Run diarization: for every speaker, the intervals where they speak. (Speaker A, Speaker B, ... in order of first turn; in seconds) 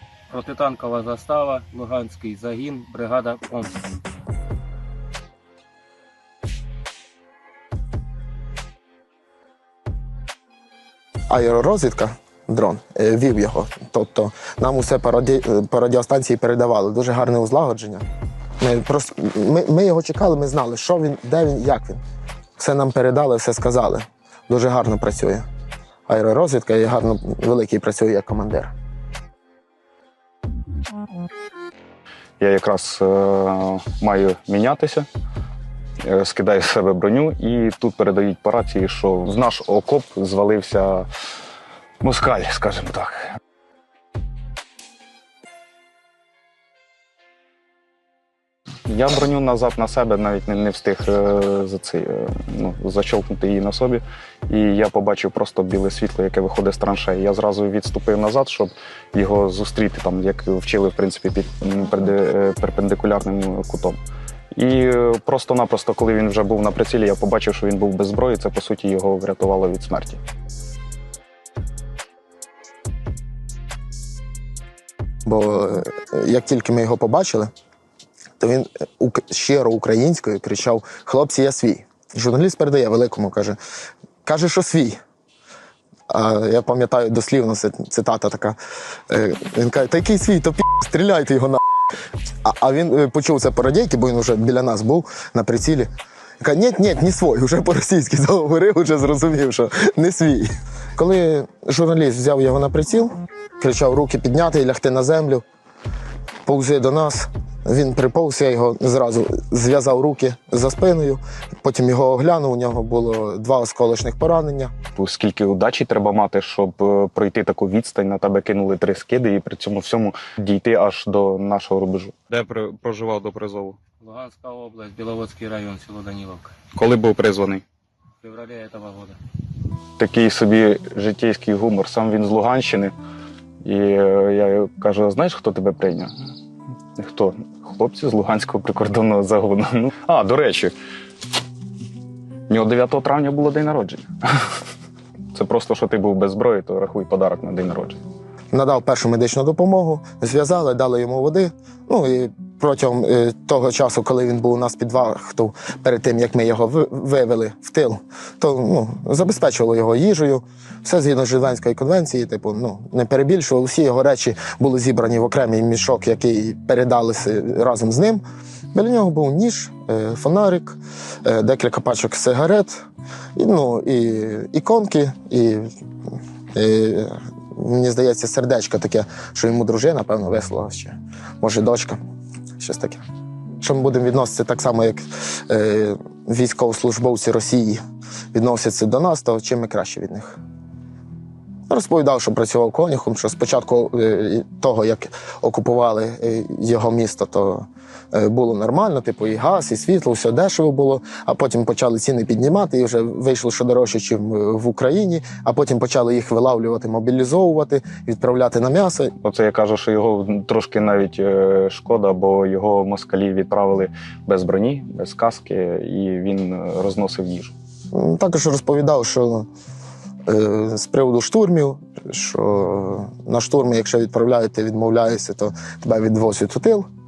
Speaker A: 0.3-3.8, 124.0-126.5, 128.2-129.2
Speaker B: 11.3-18.0, 18.6-22.0, 22.6-25.5, 26.1-28.7, 75.3-77.5, 78.4-83.6, 84.2-85.0, 86.1-88.6, 89.1-91.6, 92.4-105.4, 106.5-114.7, 148.5-168.2, 168.7-172.8, 173.3-175.7, 176.5-182.0, 182.6-183.0, 183.6-187.8, 188.3-190.4, 191.7-209.1, 217.9-219.5, 220.3-226.9
Speaker C: 32.4-35.1, 36.0-41.1, 42.0-43.3, 48.9-64.0, 64.5-70.2, 115.0-123.8, 126.7-127.6, 130.0-132.9, 133.6-136.1, 137.0-140.7, 142.5-144.1, 145.3-148.0, 209.2-217.5